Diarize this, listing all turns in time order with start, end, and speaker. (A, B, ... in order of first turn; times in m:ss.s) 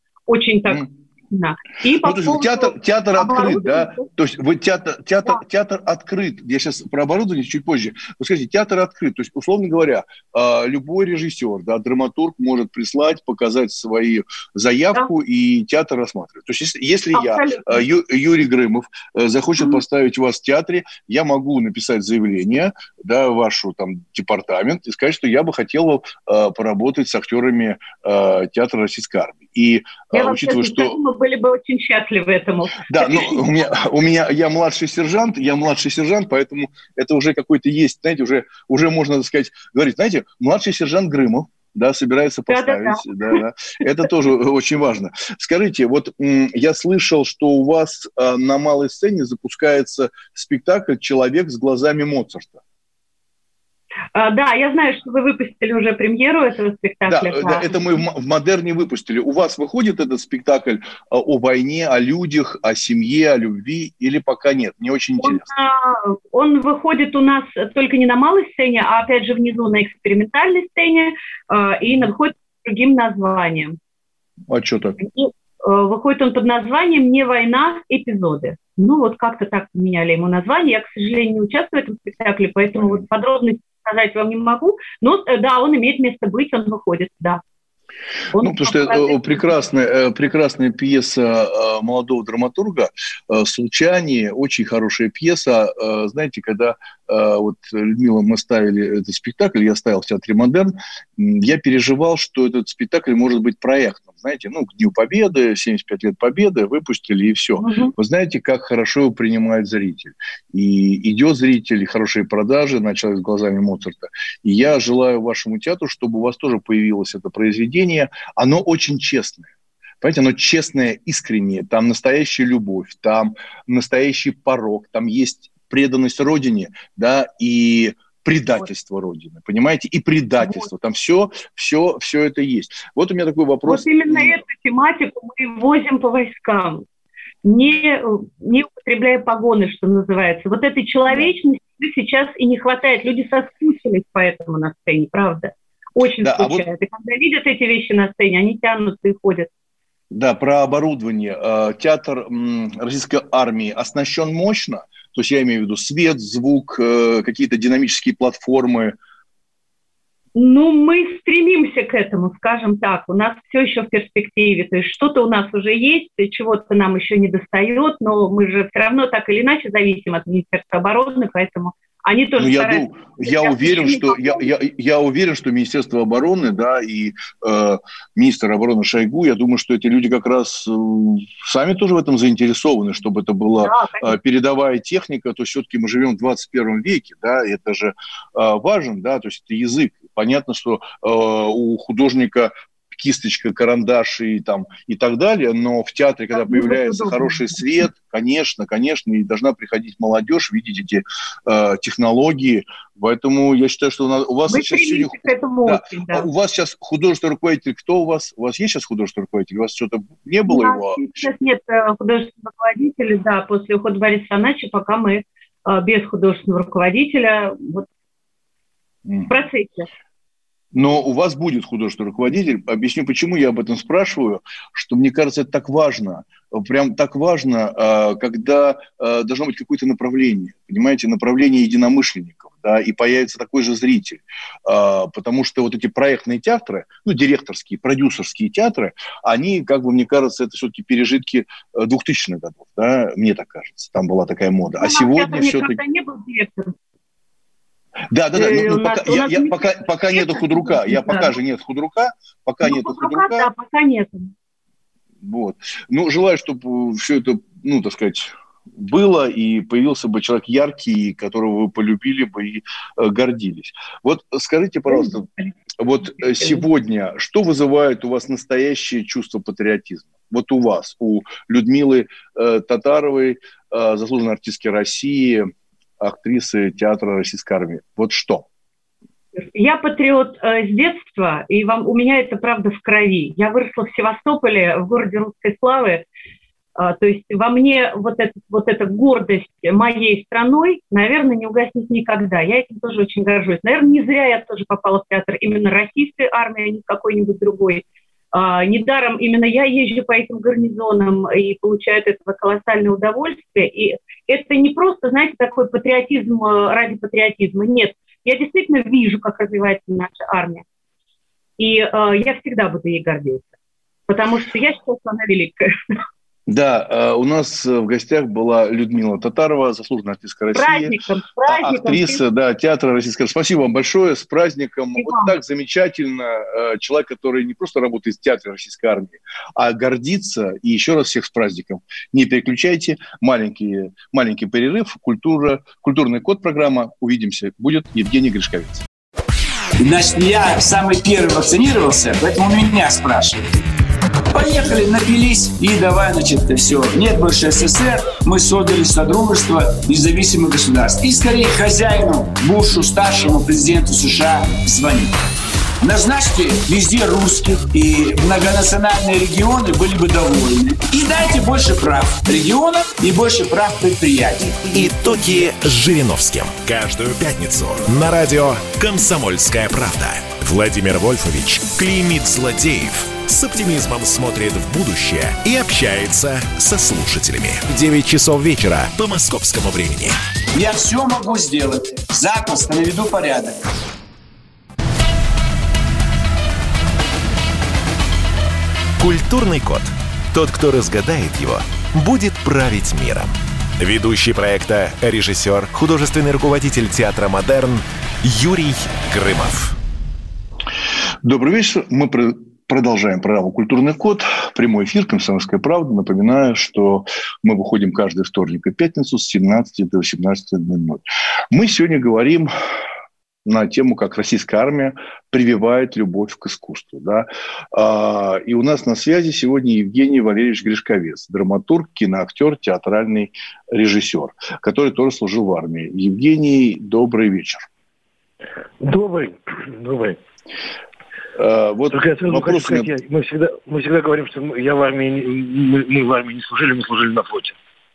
0:00.3-0:04.1 A
0:02.0-0:31.0 B
0:17.1-0:17.8 A
0:30.1-0:33.4 A
0:32.9-0:52.6 B
0:42.5-0:43.4 A
0:54.2-0:57.8 A
0:57.1-1:05.5 B
1:05.2-1:13.8 A
1:14.5-1:15.0 B
1:15.0-1:27.4 A
1:28.3-1:29.4 A
1:28.4-1:59.5 B
1:47.6-1:47.9 A
2:00.0-2:14.4 B
2:10.4-2:10.7 A
2:13.7-2:16.8 A
2:17.4-2:29.5 A
2:26.2-2:26.7 B
2:30.1-2:39.0 B
2:40.4-2:54.5 A
2:52.4-3:31.1 B
3:03.6-3:04.2 A
3:16.3-3:17.6 A
3:24.5-3:26.3 A
3:30.5-3:37.9 A
3:39.1-3:39.3 B
3:39.3-3:39.9 A
3:40.7-4:05.8 B
4:04.8-4:06.8 A
4:08.1-4:13.5 B
4:08.3-4:11.4 A
4:12.6-4:14.3 A
4:15.2-4:25.3 B
4:24.9-4:25.5 A
4:25.8-4:35.5 B
4:36.0-4:38.5 B
4:39.4-4:46.0 A
4:46.8-5:10.6 A
5:11.6-5:13.5 A
5:14.1-5:16.0 A
5:16.5-5:38.8 B
5:20.5-5:22.2 A
5:25.0-5:25.4 A
5:39.8-5:43.4 C
5:44.3-5:55.2 C
5:55.8-6:04.7 C
6:04.7-6:20.2 D
6:20.5-6:23.6 C
6:29.0-6:39.8 D
6:41.2-6:52.5 B
6:53.4-7:07.7 B
7:08.8-7:10.2 E
7:11.4-7:12.9 B
7:11.9-7:17.6 E